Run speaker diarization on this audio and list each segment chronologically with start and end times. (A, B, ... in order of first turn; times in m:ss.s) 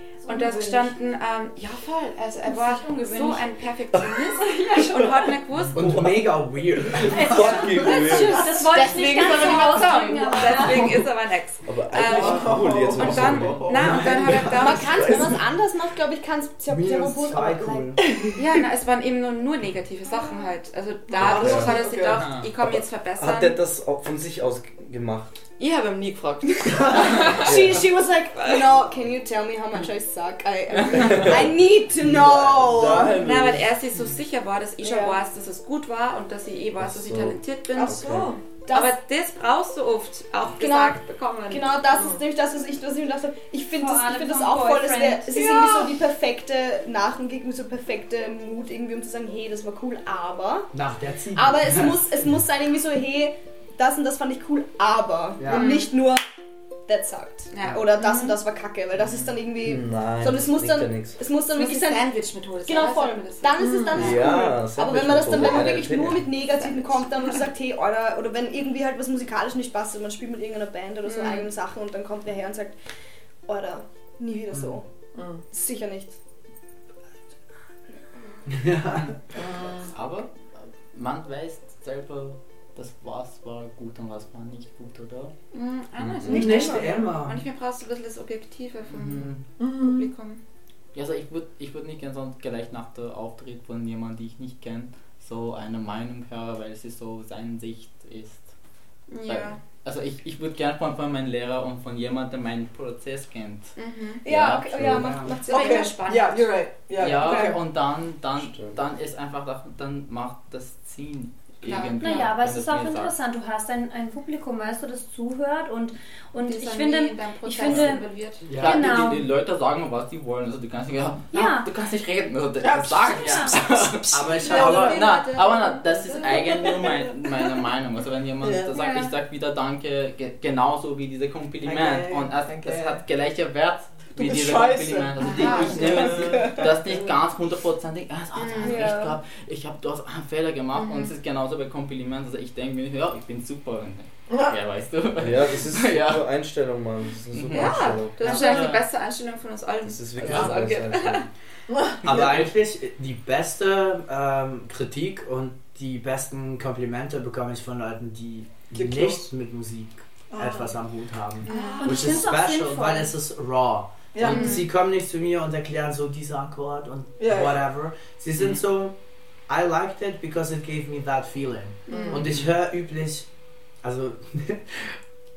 0:00.2-0:06.0 A
0:00.3-0:00.9 B
0:02.4-0:03.4 B
0:04.4-0:05.0 B
0:04.5-0:04.7 C
0:05.7-0:08.4 D
0:05.8-0:08.6 E
0:07.1-0:10.9 C
0:08.6-0:15.2 A
0:08.8-0:10.8 B
0:11.6-0:13.7 E
0:12.0-0:14.3 F
0:13.0-0:15.4 D
0:14.6-0:18.3 B
0:16.7-0:18.0 D
0:18.4-0:23.6 A
0:21.1-0:22.3 F
0:21.2-0:21.8 E
0:22.1-0:22.5 G
0:22.6-0:25.4 E
0:25.6-0:27.6 A
0:27.4-0:33.2 B
0:27.4-0:27.9 E
0:28.4-0:28.7 A
0:30.9-0:33.7 E
0:33.1-0:42.1 A
0:34.8-0:35.2 B
0:36.8-0:38.3 E
0:37.8-0:38.4 F
0:38.6-0:39.0 B
0:40.6-0:50.7 B
0:43.7-0:45.7 C
0:45.4-0:45.9 F
0:50.7-0:52.3 D
0:51.3-0:56.2 B
0:55.4-0:55.8 D
0:55.5-0:55.9 A
0:56.9-1:12.7 B
0:57.5-0:58.4 A
0:59.6-1:01.2 E
1:01.5-1:03.7 A
1:03.6-1:04.1 F
1:04.0-1:06.4 E
1:06.4-1:07.4 A
1:11.1-1:11.5 A
1:13.5-1:14.8 B
1:14.5-1:14.8 D
1:15.1-1:15.4 F
1:15.5-1:16.2 B
1:18.5-1:19.2 D
1:19.3-1:19.9 F
1:19.9-1:25.3 G
1:25.5-1:30.4 A
1:26.0-1:26.5 E
1:26.3-1:27.0 B
1:26.3-1:27.4 D
1:28.9-1:29.4 G
1:29.6-1:30.1 F
1:30.9-1:38.5 G
1:39.1-1:39.6 A
1:39.2-1:45.1 G
1:43.8-1:44.3 A
1:44.2-1:46.1 B
1:44.7-1:45.4 D
1:45.3-1:46.6 A
1:45.5-1:47.6 F
1:47.0-1:53.1 G
1:48.4-1:48.8 E
1:51.6-1:52.3 A
1:52.0-1:59.2 C
1:56.4-1:58.5 A
1:58.4-1:58.9 D
1:58.5-2:26.2 G
2:01.3-2:01.7 C
2:02.6-2:05.1 F
2:03.1-2:03.6 C
2:04.1-2:05.1 D
2:04.4-2:06.7 B
2:04.7-2:06.4 A
2:08.4-2:08.7 F
2:08.7-2:09.1 A
2:11.6-2:13.0 F
2:14.1-2:17.1 F
2:15.2-2:16.2 A
2:18.3-2:18.9 A
2:18.6-2:19.2 B
2:20.7-2:21.1 A
2:24.3-2:24.6 F
2:25.2-2:28.6 E
2:27.3-2:28.9 G
2:27.5-2:31.3 A
2:29.8-2:31.3 E
2:31.7-2:32.5 F
2:32.0-2:49.0 D
2:38.7-2:39.2 F
2:40.3-2:40.7 F
2:41.4-2:42.2 A
2:41.5-2:43.1 C
2:44.1-2:44.6 F
2:44.2-2:44.6 A
2:47.2-2:47.6 F
2:49.5-2:53.3 D
2:51.9-2:52.2 A
2:51.9-2:52.4 F
2:52.2-2:52.4 G
2:53.8-2:55.0 D